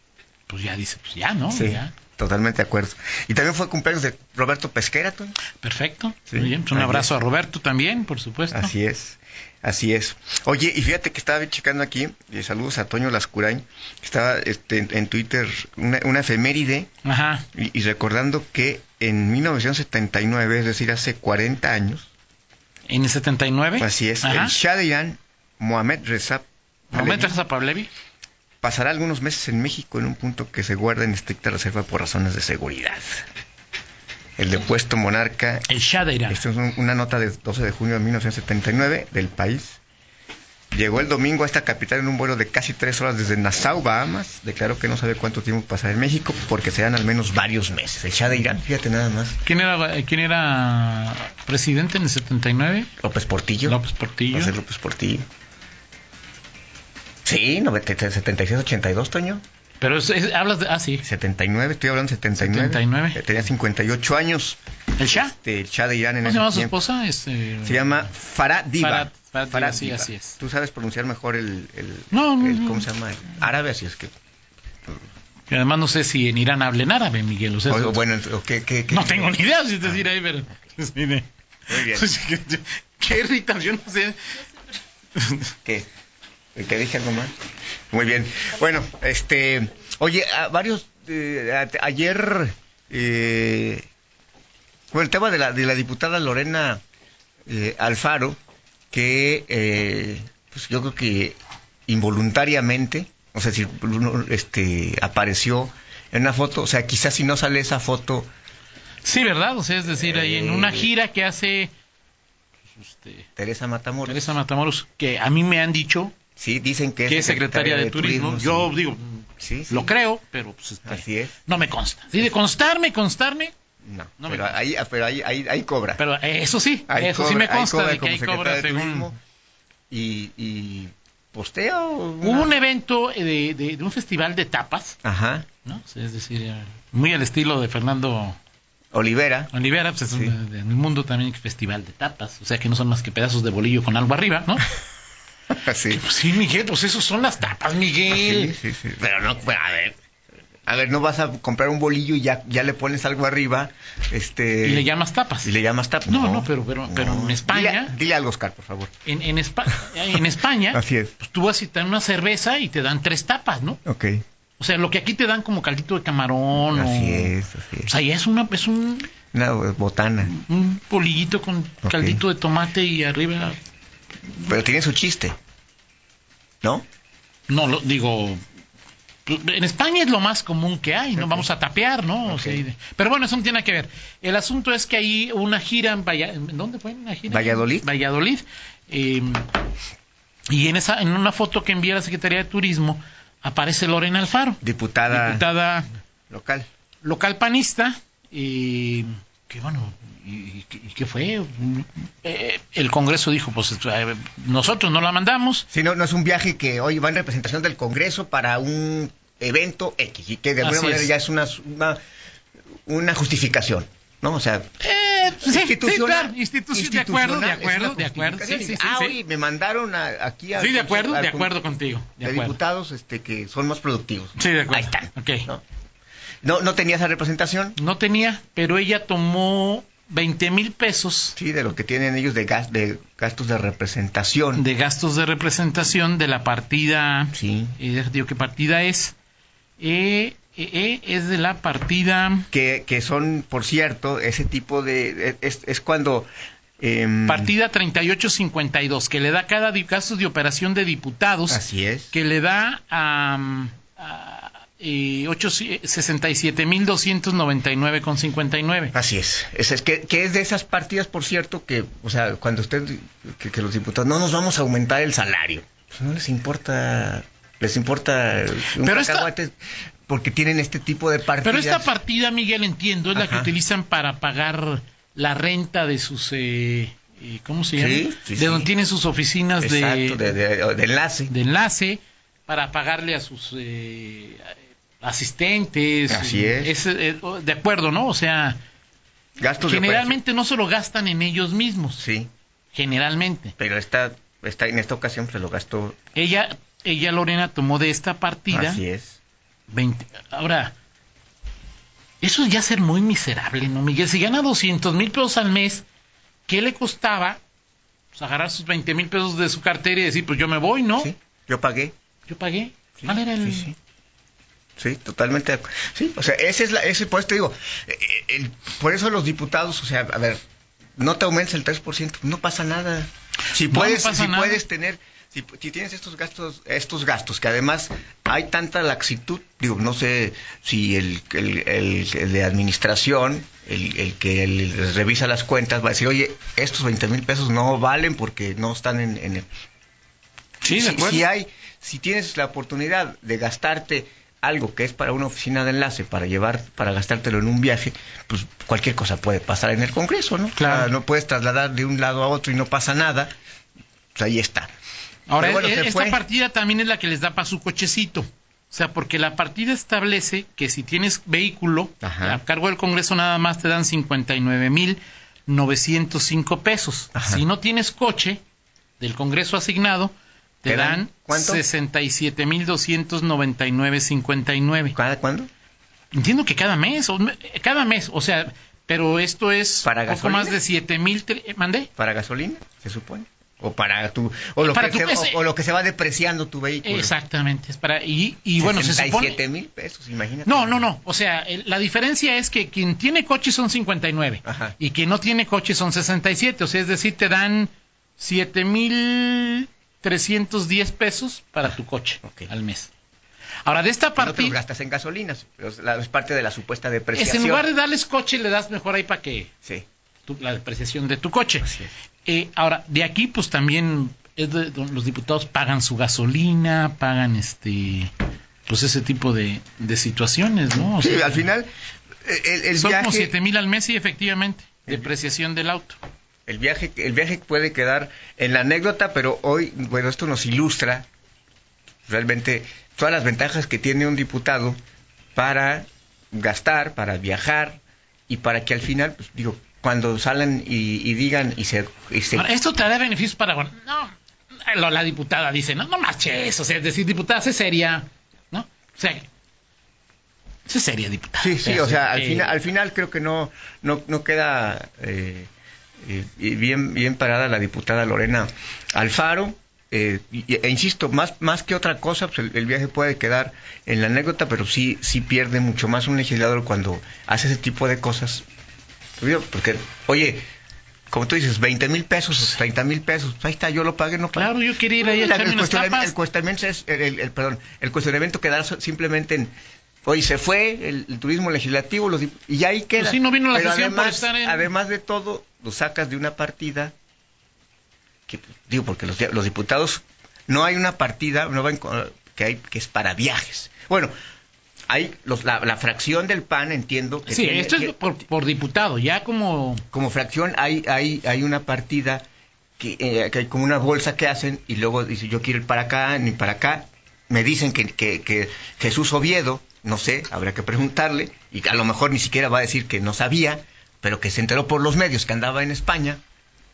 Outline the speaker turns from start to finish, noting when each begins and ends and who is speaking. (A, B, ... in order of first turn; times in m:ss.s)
0:00.5-0:01.9 A
0:01.5-0:05.4 B
0:05.6-0:08.7 A
0:06.3-0:07.1 B
0:08.5-0:16.9 B
0:17.0-0:17.4 A
0:17.5-0:22.1 B
0:22.9-0:24.6 A
0:23.8-0:27.4 B
0:26.9-0:27.9 A
0:28.6-0:33.2 B
0:34.4-0:35.7 B
0:35.7-0:36.4 A
0:36.3-0:39.8 B
0:40.7-0:49.4 B
0:49.4-0:52.9 A
0:53.0-0:55.2 B
0:53.6-0:54.5 A
0:57.2-0:59.4 B
0:59.8-1:01.0 A
1:01.0-1:06.7 B
1:02.4-1:03.3 A
1:05.0-1:05.3 A
1:06.2-1:08.1 A
1:07.6-1:14.1 B
1:08.8-1:10.4 A
1:12.1-1:12.9 A
1:15.5-1:18.0 A
1:17.7-1:20.0 B
1:18.9-1:24.4 A
1:21.7-1:22.1 B
1:25.2-1:25.5 A
1:26.5-1:27.3 B
1:27.9-1:33.8 B
1:34.9-1:36.8 B
1:37.5-1:38.4 B
1:38.9-1:48.3 B
1:49.0-1:51.7 A
1:49.8-1:50.9 B
1:52.7-1:53.3 A
1:53.4-1:54.3 B
1:54.0-1:56.1 A
1:56.4-1:58.7 B
1:57.0-2:03.5 A
1:59.4-1:59.9 B
2:00.8-2:01.5 B
2:03.8-2:06.0 B
2:04.2-2:04.5 A
2:06.0-2:09.1 A
2:06.9-2:09.2 B
2:09.9-2:12.5 B
2:12.2-2:15.0 A
2:15.0-2:15.5 B
2:15.6-2:18.4 A
2:18.9-2:19.5 B
2:19.5-2:24.7 A
2:20.1-2:20.4 B
2:25.5-2:26.1 B
2:25.9-2:28.6 A
2:28.1-2:30.0 B
2:30.6-2:34.9 B
2:34.6-2:35.5 A
2:35.4-2:38.9 B
2:36.1-2:37.9 A
2:39.0-2:43.8 A
2:40.7-2:41.1 B
2:43.8-2:44.2 B
2:44.6-2:49.1 A
2:46.7-2:47.9 B
2:49.3-2:50.3 B
2:50.3-2:53.6 A
2:51.8-2:52.2 B
2:54.4-2:55.4 B
2:57.5-2:58.4 A
2:59.2-3:09.6 A
3:01.2-3:01.5 B
3:02.2-3:02.6 B
3:07.3-3:07.9 B
3:10.5-3:15.9 A
3:14.6-3:15.4 B
3:16.3-3:16.7 B
3:17.0-3:25.6 A
3:25.7-3:32.0 B
3:30.6-3:31.1 A
3:32.8-3:34.7 B
3:34.8-3:39.2 A
3:35.4-3:41.5 B
3:40.6-3:42.6 A
3:42.2-3:45.6 B
3:44.4-3:45.5 A
3:46.4-3:47.8 B
3:47.8-3:51.4 A
3:51.4-3:54.6 B
3:54.5-3:59.1 A
3:57.3-3:57.8 B
3:59.8-4:02.5 A
4:02.5-4:06.3 B
4:06.8-4:07.5 B
4:07.2-4:18.9 A
4:11.5-4:12.1 B
4:18.9-4:29.5 B
4:28.7-4:29.3 A
4:30.1-4:31.9 B
4:31.4-4:40.4 A
4:33.1-4:33.5 B
4:37.7-4:38.7 B
4:39.6-4:41.3 B
4:41.3-4:48.6 A
4:46.1-4:46.7 B
4:49.4-4:50.2 B
4:49.6-4:52.0 A
4:52.0-4:52.3 B
4:52.7-4:53.5 A
4:53.6-4:56.0 B
4:56.1-4:58.8 A
4:58.5-4:59.2 B
4:59.7-5:00.7 A
5:02.2-5:05.8 A
5:06.5-5:07.4 A
5:08.1-5:11.1 A
5:11.0-5:11.9 B
5:12.3-5:13.7 A
5:13.0-5:13.8 B
5:14.8-5:20.4 B
5:21.0-5:39.5 B
5:23.5-5:24.6 A
5:40.6-5:41.2 A
5:40.6-5:53.3 B
5:50.5-5:50.9 A
5:54.1-5:54.7 B
5:55.3-6:08.4 A
5:55.4-5:56.2 B
6:02.0-6:02.4 B
6:07.1-6:07.4 B
6:09.0-6:15.0 A
6:10.7-6:11.6 B
6:14.9-6:15.5 B
6:16.1-6:21.9 A
6:19.8-6:20.6 B
6:22.0-6:27.1 B
6:24.6-6:25.4 A
6:26.8-6:29.4 A
6:28.6-6:30.9 B
6:30.4-6:42.9 A
6:34.4-6:34.8 B
6:42.2-6:42.5 B
6:43.6-6:44.6 A
6:44.2-6:47.7 B
6:47.1-6:49.5 A
6:50.2-6:51.7 A
6:51.6-6:51.9 B
6:52.2-6:58.1 A
6:58.7-7:01.5 A
7:00.7-7:01.7 B
7:02.2-7:03.3 B
7:02.8-7:06.0 A
7:06.5-7:11.1 B
7:12.1-7:14.8 B
7:15.3-7:22.5 B
7:22.3-7:29.3 A
7:30.6-7:32.5 A
7:31.4-7:35.5 B
7:36.0-7:48.4 B
7:49.2-7:50.4 B
7:51.1-7:59.5 B
7:54.3-7:56.1 A
8:00.0-8:06.9 B
8:03.0-8:04.7 A
8:08.3-8:14.1 B
8:14.9-8:18.0 B
8:17.2-8:19.8 A
8:19.9-8:22.2 B
8:22.8-8:36.2 B